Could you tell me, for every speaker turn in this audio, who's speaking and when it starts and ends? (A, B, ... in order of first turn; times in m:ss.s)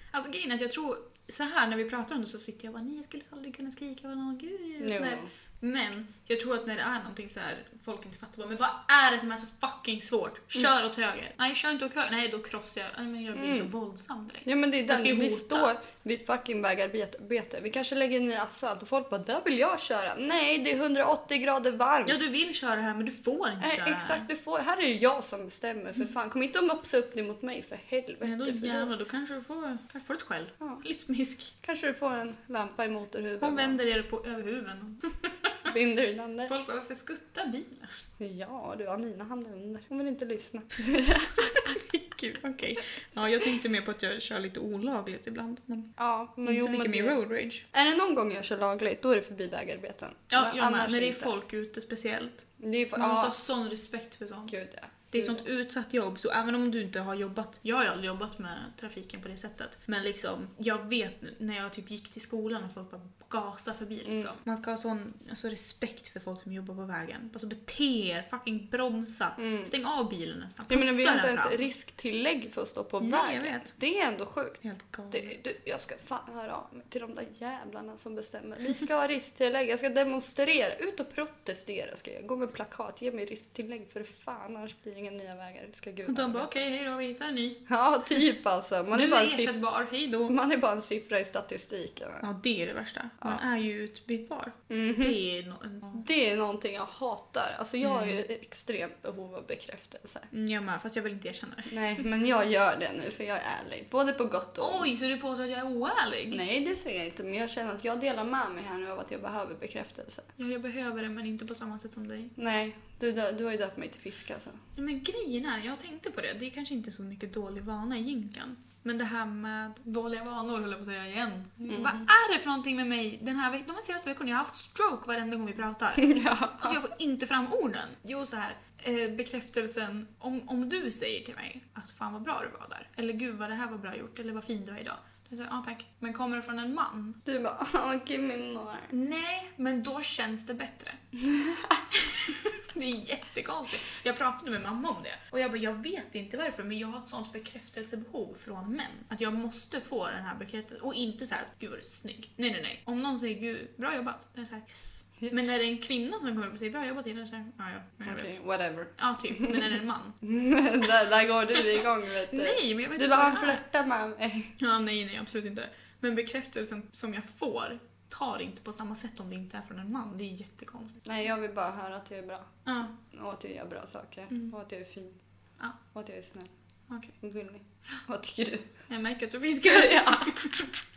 0:00.1-0:15.7 A
0:04.8-0:05.3 B
0:13.3-0:13.7 B
0:14.4-0:22.2 B
0:22.0-0:24.3 A
0:23.6-0:28.9 B
0:28.2-0:31.5 A
0:31.6-0:33.8 B
0:33.4-0:35.7 A
0:35.6-0:36.5 B
0:36.5-0:38.0 A
0:38.2-0:41.8 B
0:41.4-0:45.9 A
0:46.0-0:47.2 B
0:46.4-0:47.6 A
0:47.7-0:51.3 B
0:50.3-0:54.5 A
0:52.6-0:53.4 B
0:54.5-0:55.4 B
0:55.1-1:11.6 A
1:04.0-1:04.4 B
1:09.4-1:09.7 B
1:10.7-1:14.6 B
1:13.0-1:13.7 A
1:14.6-1:15.4 A
1:15.1-1:26.6 B
1:26.0-1:27.6 A
1:27.7-1:29.6 B
1:28.9-1:30.3 A
1:30.3-1:32.2 B
1:32.2-1:36.0 A
1:34.7-1:35.2 B
1:35.9-1:40.3 B
1:37.8-1:38.2 A
1:40.3-1:42.1 A
1:41.7-1:44.9 B
1:44.6-1:46.4 A
1:46.3-1:50.3 B
1:50.4-1:52.3 A
1:52.4-1:54.6 B
1:54.8-2:17.2 A
2:01.7-2:02.1 B
2:06.0-2:06.8 B
2:17.2-2:18.9 B
2:18.9-2:21.0 A
2:21.2-2:21.8 B
2:21.9-2:38.4 A
2:38.0-2:44.5 B
2:39.0-2:40.2 A
2:41.6-2:43.6 A
2:44.6-2:51.0 A
2:51.0-2:55.2 B
2:52.6-2:52.9 A
2:55.9-2:56.5 B
2:57.2-2:58.7 B
2:58.9-3:00.7 A
2:59.7-3:00.4 B